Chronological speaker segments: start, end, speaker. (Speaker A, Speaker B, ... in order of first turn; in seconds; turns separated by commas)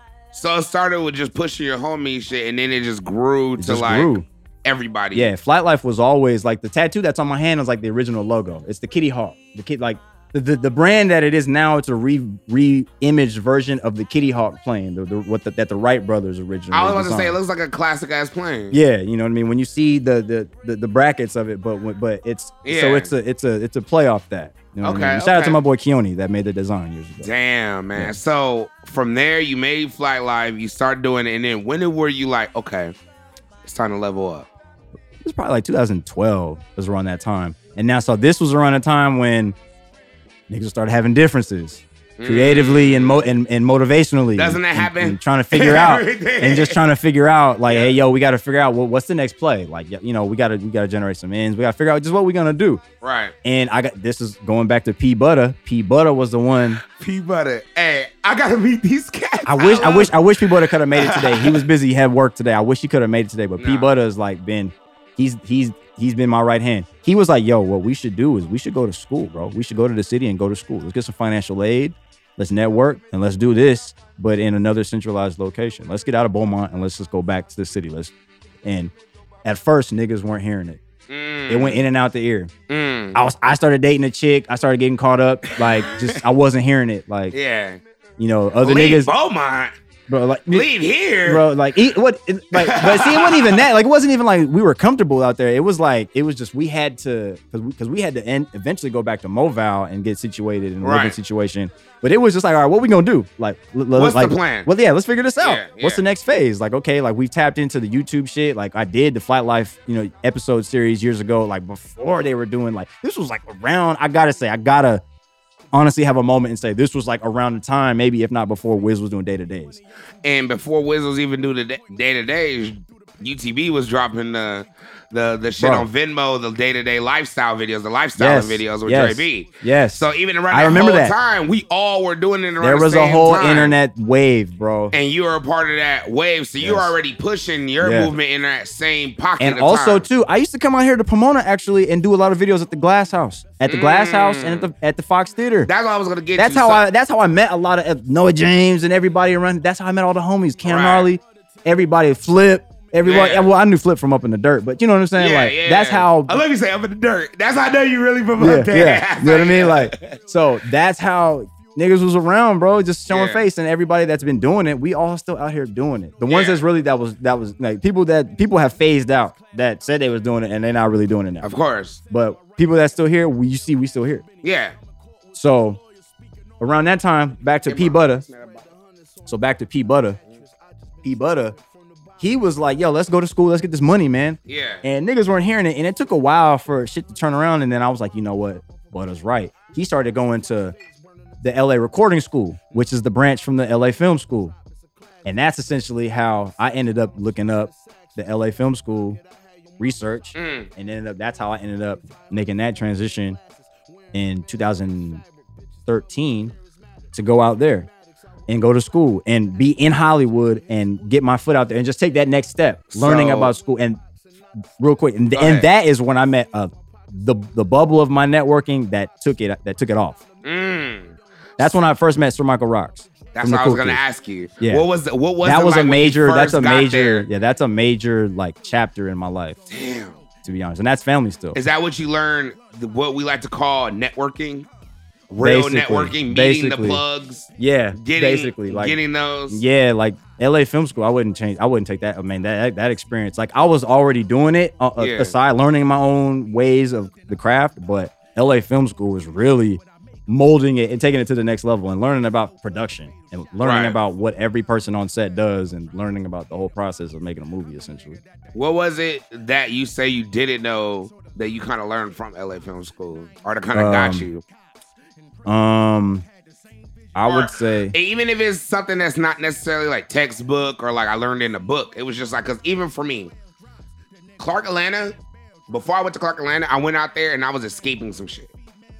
Speaker A: 0.3-5.3, Speaker B: 3.6-4.2, Speaker B: 5.1-17.4, Speaker A: 16.7-18.8, Speaker B: 18.7-27.3, Speaker A: 22.6-23.1, Speaker A: 24.8-25.6, Speaker A: 27.2-32.9, Speaker A: 33.6-34.5, Speaker B: 35.2-39.5, Speaker B: 40.5-52.8, Speaker A: 42.2-43.2, Speaker A: 44.4-46.8, Speaker A: 47.7-47.9, Speaker A: 53.0-53.3, Speaker B: 53.4-56.8, Speaker A: 56.9-61.6, Speaker B: 59.5-78.1, Speaker A: 63.6-63.9, Speaker B: 78.6-78.9, Speaker B: 79.4-80.8, Speaker A: 81.1-81.8, Speaker B: 81.5-82.5, Speaker A: 82.7-83.2, Speaker B: 83.1-87.3, Speaker A: 85.5-86.2, Speaker A: 87.3-87.8, Speaker B: 88.2-89.1, Speaker A: 88.6-89.7, Speaker B: 90.1-90.7, Speaker A: 90.5-91.5, Speaker B: 91.2-115.0, Speaker A: 92.5-93.7, Speaker A: 100.8-101.2, Speaker A: 103.9-104.7, Speaker A: 105.4-106.0, Speaker B: 115.7-119.8, Speaker A: 120.2-133.8, Speaker B: 125.6-125.9, Speaker B: 128.2-131.2, Speaker B: 132.6-134.9, Speaker A: 134.9-140.1, Speaker B: 136.6-136.9, Speaker B: 137.8-138.1, Speaker B: 139.4-145.7, Speaker A: 143.7-144.7, Speaker A: 145.7-146.8, Speaker B: 146.3-156.4, Speaker A: 150.6-151.1, Speaker A: 153.0-153.5, Speaker A: 155.2-160.2, Speaker B: 158.4-171.5, Speaker A: 163.1-163.4, Speaker A: 166.3-166.6, Speaker A: 171.4-172.0, Speaker B: 172.1-174.2, Speaker A: 174.4-174.7, Speaker B: 175.3-175.8, Speaker B: 176.6-178.2, Speaker A: 177.7-178.6, Speaker B: 179.2-180.2, Speaker B: 181.0-181.6, Speaker B: 182.2-190.8, Speaker A: 184.5-184.8, Speaker B: 191.4-194.5, Speaker B: 195.2-199.2, Speaker B: 199.8-203.4, Speaker A: 200.3-200.7, Speaker B: 204.1-205.2, Speaker B: 205.9-206.5, Speaker B: 207.1-207.9, Speaker B: 208.5-214.0, Speaker A: 212.9-213.5, Speaker B: 214.8-220.2, Speaker A: 215.3-215.7, Speaker A: 220.4-221.7, Speaker B: 221.6-224.0, Speaker A: 223.3-227.3, Speaker B: 224.6-224.9, Speaker B: 225.4-229.6, Speaker A: 229.7-230.2, Speaker B: 230.4-231.6, Speaker A: 231.5-234.7, Speaker A: 235.3-239.6, Speaker B: 235.4-237.0, Speaker B: 237.6-239.0, Speaker B: 239.5-258.2, Speaker A: 245.0-245.3, Speaker A: 253.6-254.0, Speaker A: 258.5-264.4, Speaker B: 263.7-264.3, Speaker B: 265.4-266.2, Speaker B: 267.1-267.9, Speaker A: 267.2-273.3, Speaker A: 274.4-275.1, Speaker A: 275.7-278.5